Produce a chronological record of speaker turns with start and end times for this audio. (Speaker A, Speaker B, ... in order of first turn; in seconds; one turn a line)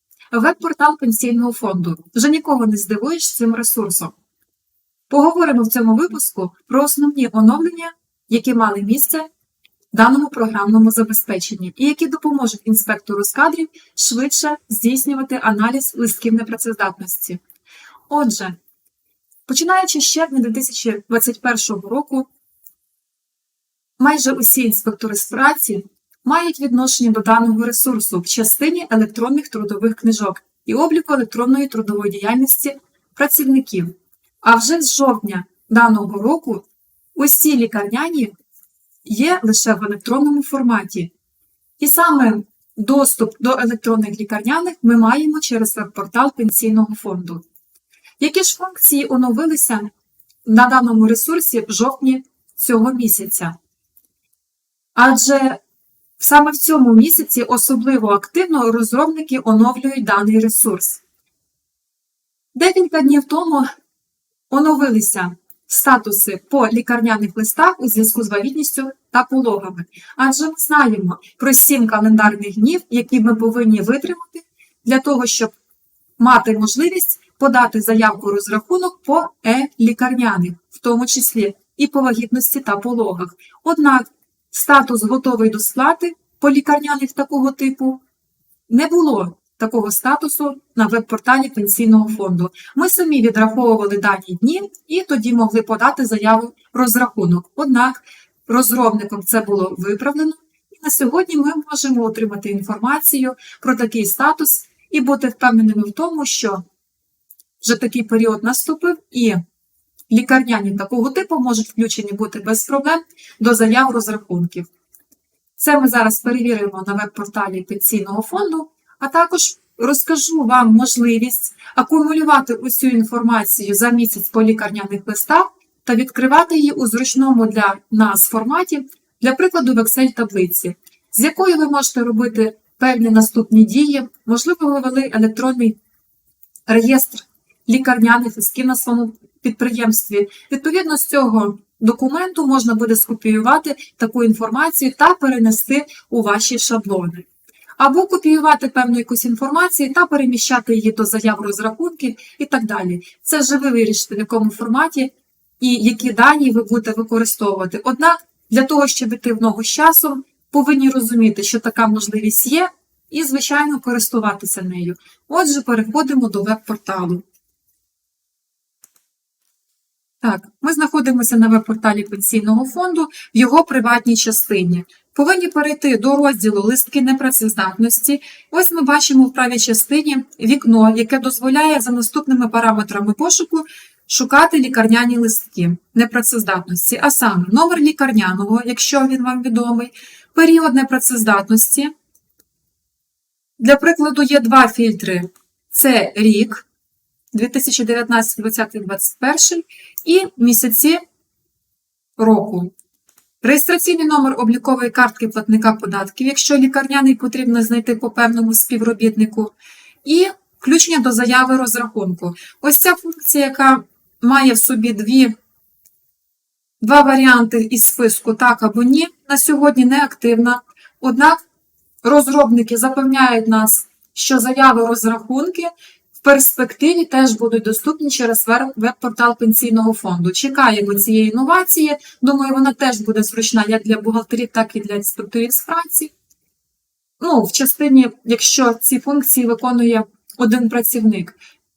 Speaker A: 0.3-4.1
Speaker A: 5.1-9.3
Speaker A: 9.9-17.4
Speaker A: 18.1-18.6
Speaker A: 19.5-22.3
Speaker A: 24.0-38.3
Speaker A: 39.0-41.1
Speaker A: 41.8-47.5
Speaker A: 48.2-49.9
Speaker A: 50.5-53.6
Speaker A: 55.0-55.6
Speaker A: 56.2-61.0
Speaker A: 62.5-63.7
Speaker A: 64.5-75.5
Speaker A: 76.2-88.0
Speaker A: 88.7-106.6
Speaker A: 107.6-109.4
Speaker A: 110.1-114.7
Speaker A: 115.6-135.8
Speaker A: 136.7-147.2
Speaker A: 147.8-167.2
Speaker A: 170.2-191.9
Speaker A: 193.6-196.7
Speaker A: 197.3-201.0
Speaker A: 202.2-202.7
Speaker A: 203.4-215.3
Speaker A: 216.8-221.4
Speaker A: 222.0-225.7
Speaker A: 226.2-236.1
Speaker A: 237.2-241.4